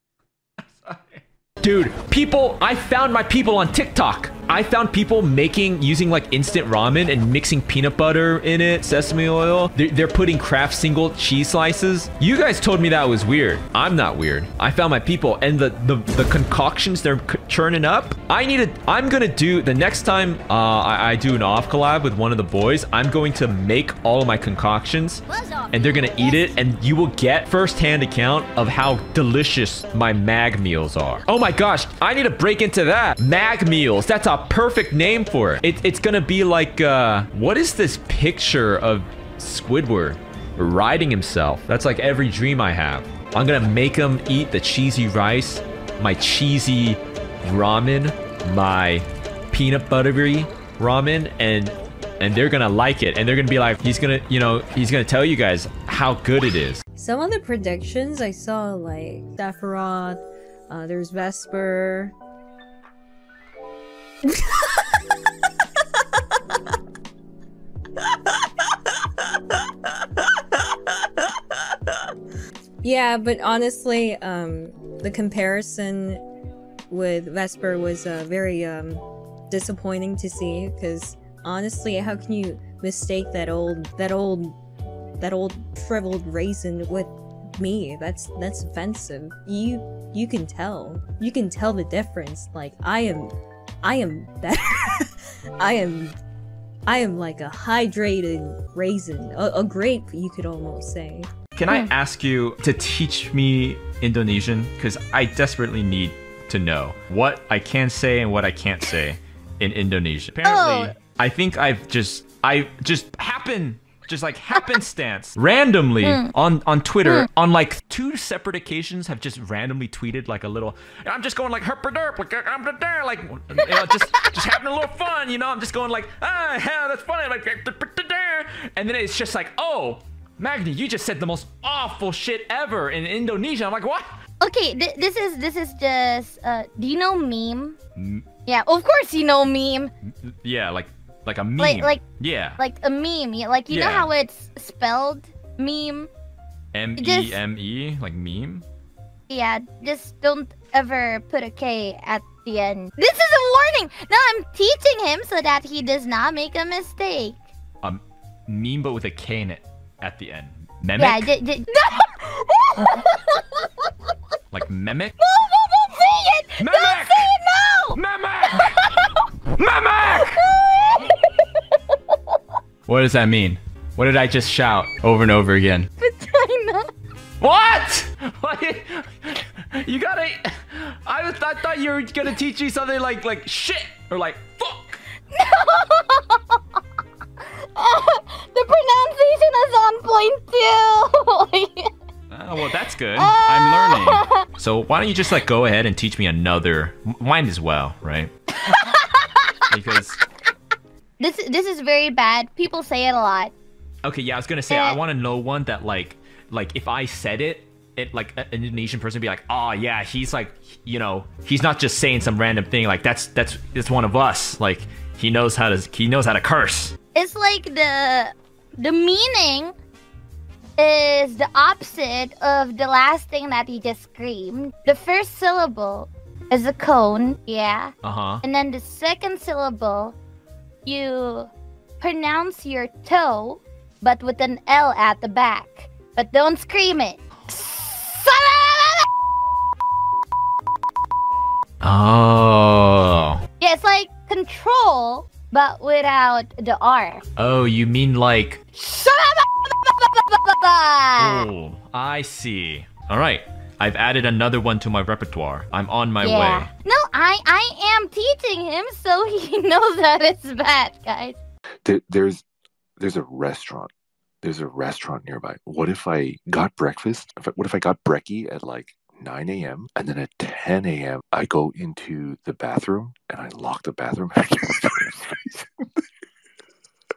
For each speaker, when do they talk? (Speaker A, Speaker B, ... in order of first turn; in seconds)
Speaker A: 0.7-56.8, 101.6-134.2, 138.0-138.2, 140.2-142.6, 143.7-144.1, 146.7-148.7, 157.8-161.3, 164.5-165.2, 166.6-167.3, 167.9-168.8, 169.6-170.4, 172.9-175.9, 177.4-185.0, 192.3-198.3, 199.7-200.2, 204.0-217.0, 228.0-228.4, 241.8-243.4, 247.4-248.6, 251.2-256.7
Speaker B: 57.0-62.1, 72.8-76.2, 76.9-84.6, 85.2-93.3, 93.8-95.1, 95.6-96.2, 96.9-101.3
Speaker C: 110.4-111.0, 116.0-116.3, 123.7-124.4, 134.4-137.8, 138.5-139.9, 141.6-142.0, 142.6-146.1, 147.0-147.4, 149.3-157.4, 161.0-163.5, 165.2-169.2, 170.0-171.3, 176.0-176.9, 185.3-186.4, 187.7-191.9, 193.2-194.4, 198.7-199.5, 201.2-203.5, 204.7-205.0, 217.2-219.8, 220.8-230.2, 230.8-237.2, 238.1-239.1, 243.6-247.2, 248.8-251.5, 256.2-261.4
Speaker D: 261.9-262.4, 263.0-263.9, 264.4-275.7